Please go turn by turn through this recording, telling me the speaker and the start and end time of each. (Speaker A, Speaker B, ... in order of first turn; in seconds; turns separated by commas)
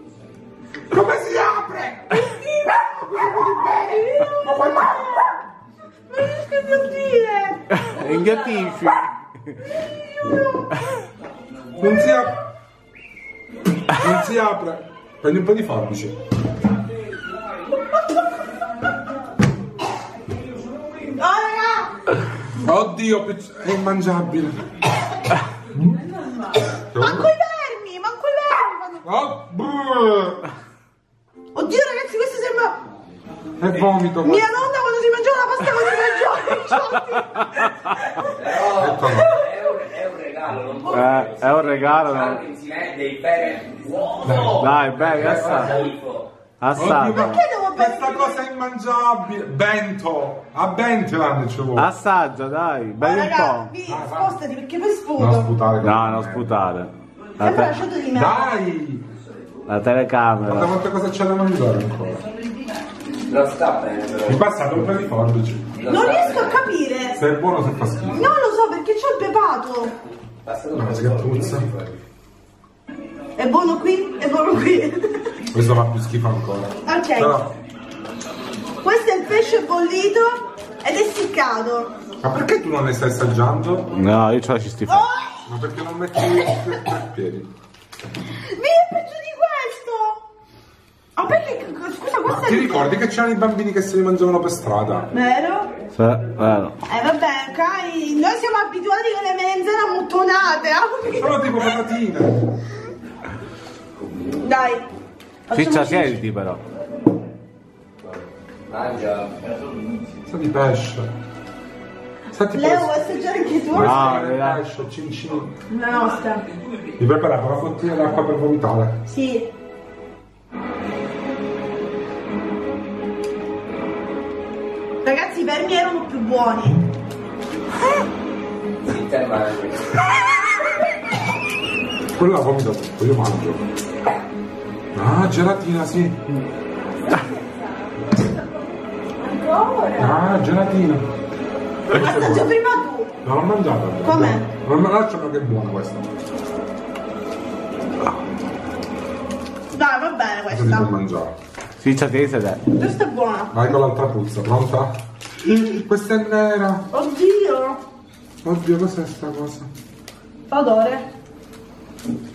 Speaker A: 0.9-2.2, Speaker B: 2.1-5.3, Speaker A: 3.3-3.6, Speaker A: 4.3-5.2, Speaker B: 6.1-7.8, Speaker C: 7.8-9.6, Speaker B: 10.1-10.8, Speaker A: 11.8-12.4, Speaker A: 13.9-16.1, Speaker B: 21.1-22.0, Speaker A: 22.6-24.6, Speaker A: 25.8-26.0, Speaker A: 26.7-27.3, Speaker B: 27.0-29.1, Speaker A: 29.1-30.4, Speaker B: 31.5-32.8, Speaker A: 33.6-34.5, Speaker B: 34.2-38.3, Speaker D: 38.3-46.3, Speaker A: 38.6-39.3, Speaker B: 39.0-39.7, Speaker C: 40.9-42.4, Speaker A: 44.2-44.7, Speaker C: 44.6-45.8, Speaker C: 46.6-47.4, Speaker A: 46.8-51.9, Speaker B: 47.0-48.4, Speaker C: 51.8-53.7, Speaker B: 53.0-55.5, Speaker A: 53.9-54.4, Speaker A: 55.2-56.5, Speaker C: 55.8-57.7, Speaker B: 57.4-58.5, Speaker A: 58.1-59.0, Speaker C: 59.7-60.7, Speaker A: 60.4-62.2, Speaker D: 63.3-64.4, Speaker A: 64.3-65.7, Speaker D: 65.8-66.6, Speaker B: 65.8-67.2, Speaker A: 67.2-68.3, Speaker B: 68.1-69.9, Speaker D: 70.5-72.0, Speaker A: 70.7-71.7, Speaker B: 73.4-75.3, Speaker A: 75.5-77.5, Speaker B: 76.8-77.5, Speaker B: 78.8-81.9, Speaker A: 82.2-83.9, Speaker C: 84.0-85.1, Speaker B: 84.9-85.5, Speaker A: 85.5-87.5, Speaker B: 88.5-90.2, Speaker B: 91.2-93.0, Speaker A: 92.3-95.1, Speaker B: 95.1-95.7, Speaker C: 96.0-96.8, Speaker B: 96.8-101.8, Speaker A: 101.1-102.4, Speaker B: 104.4-104.8, Speaker B: 105.5-106.2, Speaker C: 105.5-106.6, Speaker D: 108.7-109.4, Speaker A: 110.3-111.1, Speaker A: 112.3-113.0, Speaker B: 112.5-114.1, Speaker A: 113.7-115.5, Speaker C: 113.8-114.6, Speaker B: 115.7-116.4, Speaker A: 117.0-119.0, Speaker B: 119.1-119.5, Speaker B: 125.0-126.8, Speaker D: 128.9-130.0, Speaker A: 132.2-133.7, Speaker A: 134.9-136.2, Speaker B: 138.2-138.5, Speaker B: 139.2-140.0, Speaker A: 140.0-141.1, Speaker A: 141.9-142.5, Speaker B: 141.9-143.1, Speaker A: 143.2-146.1, Speaker B: 144.0-144.5, Speaker B: 149.7-150.9, Speaker A: 150.5-151.3, Speaker C: 151.8-152.6, Speaker B: 152.8-153.6, Speaker A: 153.5-156.9, Speaker B: 156.9-157.8, Speaker A: 158.4-159.7, Speaker B: 160.5-161.1